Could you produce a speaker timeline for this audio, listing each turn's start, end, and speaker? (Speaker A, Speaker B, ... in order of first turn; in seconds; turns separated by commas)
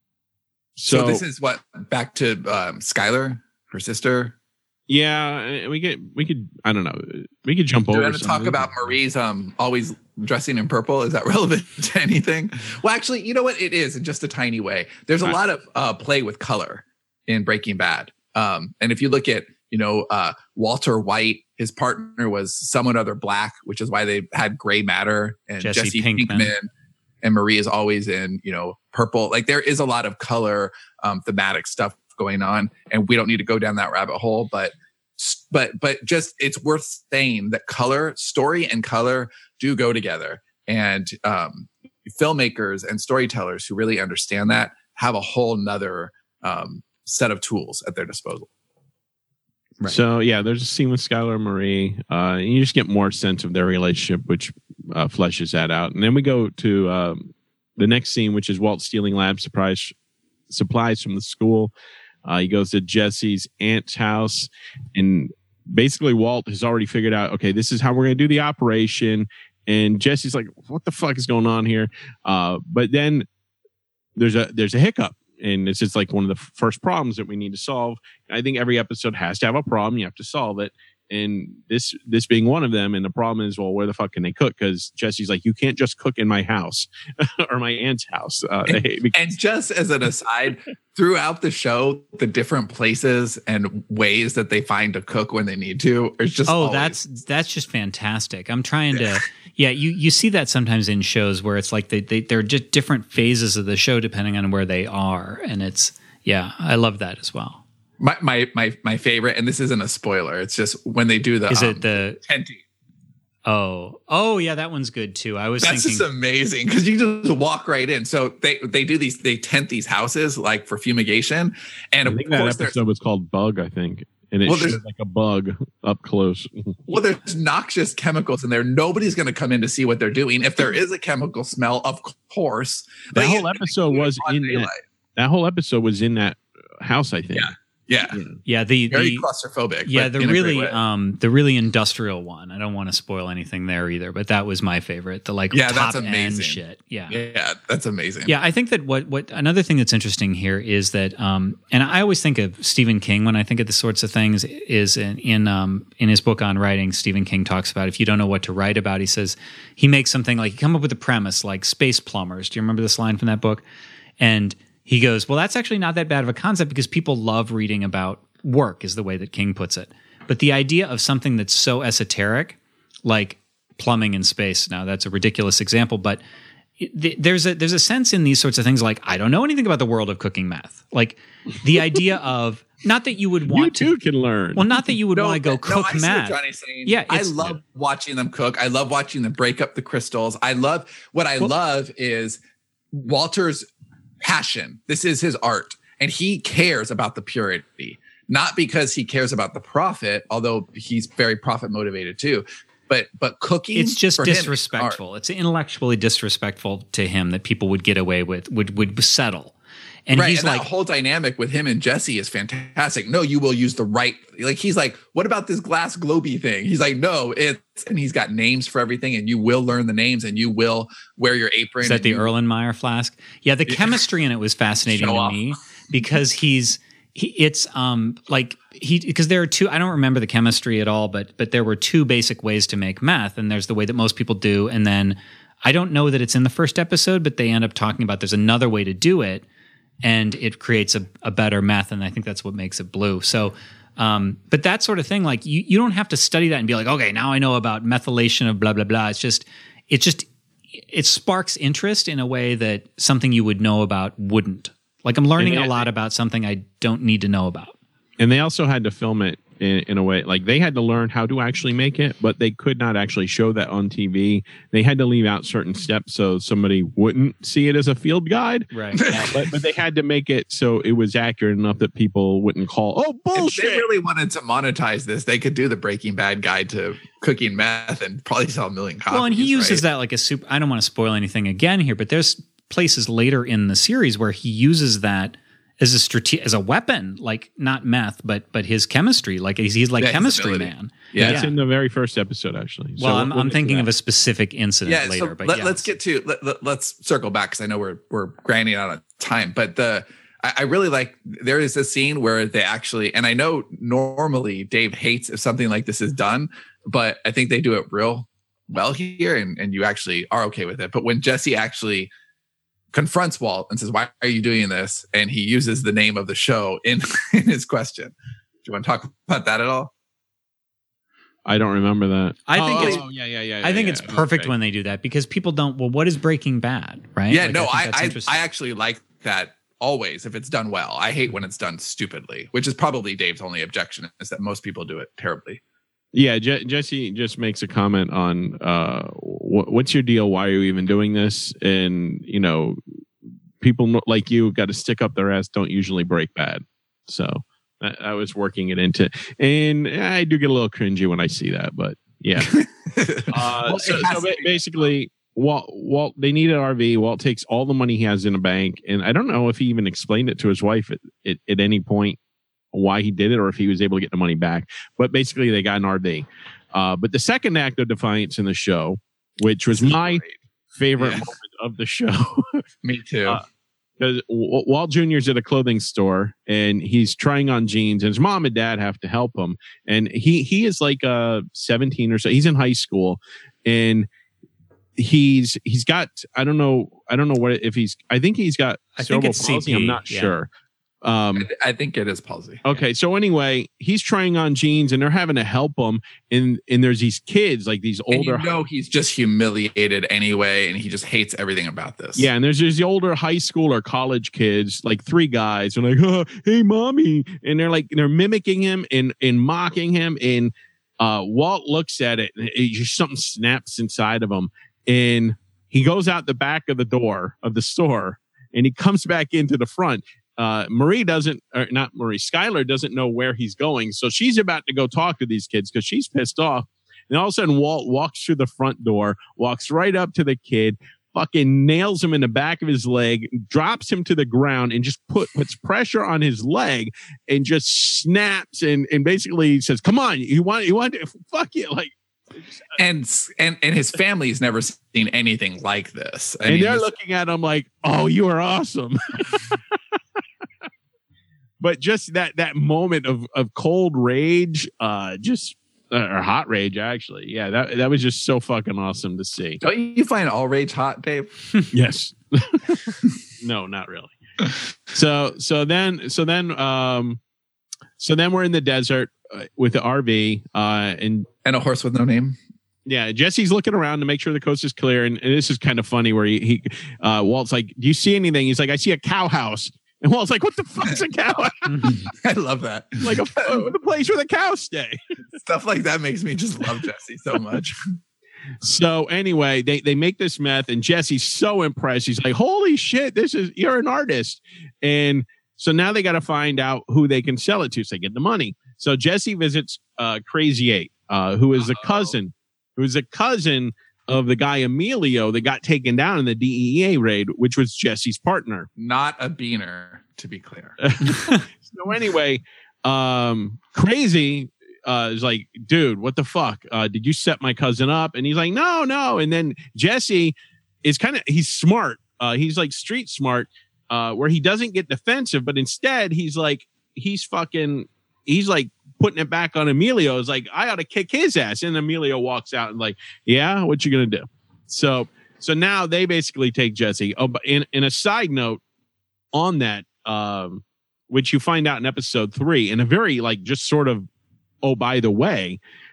Speaker A: 0.8-1.2, Speaker B: 0.9-4.3, Speaker A: 4.9-8.7, Speaker B: 7.9-26.7, Speaker C: 25.6-26.5, Speaker B: 27.2-48.5, Speaker A: 49.9-59.9, Speaker A: 60.5-61.7, Speaker A: 62.2-73.3, Speaker A: 74.2-89.1, Speaker B: 88.7-97.0, Speaker C: 96.5-107.6, Speaker B: 108.0-112.6, Speaker C: 111.5-112.2, Speaker C: 113.5-116.1, Speaker B: 115.6-122.8, Speaker A: 122.1-126.8, Speaker B: 124.5-124.8, Speaker B: 126.9-134.8, Speaker A: 133.1-137.5, Speaker B: 137.3-138.2, Speaker A: 138.1-138.4, Speaker C: 138.5-139.3, Speaker B: 138.9-140.8, Speaker C: 139.8-147.2, Speaker B: 145.5-148.3, Speaker C: 148.3-163.6, Speaker C: 164.2-176.2, Speaker C: 176.8-183.9, Speaker A: 183.5-184.7, Speaker C: 184.6-187.6, Speaker B: 185.2-192.4, Speaker B: 192.9-193.7, Speaker B: 194.2-205.0, Speaker C: 203.8-209.6, Speaker C: 210.1-210.7, Speaker B: 210.1-222.3, Speaker C: 221.8-239.4, Speaker B: 224.9-225.4, Speaker C: 240.0-250.3, Speaker C: 250.9-257.7, Speaker A: 255.4-255.9, Speaker A: 258.2-273.9, Speaker C: 268.7-269.0, Speaker B: 269.0-269.5, Speaker B: 273.4-279.8, Speaker C: 279.1-291.5, Speaker B: 290.0-291.5, Speaker A: 291.2-293.9, Speaker C: 293.0-295.9, Speaker B: 294.9-312.1, Speaker B: 312.9-319.9, Speaker A: 321.5-324.5, Speaker C: 322.5-323.0, Speaker B: 322.7-323.0, Speaker C: 323.6-328.4, Speaker B: 327.3-335.6, Speaker A: 336.1-342.8, Speaker A: 343.6-352.6, Speaker B: 352.4-354.6, Speaker A: 353.3-362.2, Speaker A: 362.7-372.6, Speaker B: 369.8-370.4, Speaker B: 371.0-371.3, Speaker B: 372.8-373.4, Speaker A: 374.0-384.1, Speaker A: 385.0-390.5, Speaker C: 389.0-390.3, Speaker A: 391.0-391.5, Speaker B: 391.4-392.6, Speaker A: 392.6-398.5, Speaker B: 398.1-402.3, Speaker A: 402.2-441.9, Speaker B: 442.8-446.9, Speaker A: 446.4-449.6, Speaker A: 451.6-459.6, Speaker B: 459.6-461.3, Speaker A: 461.7-464.1, Speaker A: 464.9-467.2, Speaker A: 468.0-471.3, Speaker B: 471.4-472.4, Speaker A: 472.9-481.9, Speaker B: 481.8-483.7, Speaker A: 483.0-485.0, Speaker B: 485.4-487.8, Speaker A: 488.6-508.7, Speaker B: 501.6-502.1, Speaker B: 508.8-510.8, Speaker A: 510.8-538.6, Speaker A: 539.3-544.0, Speaker A: 544.6-545.6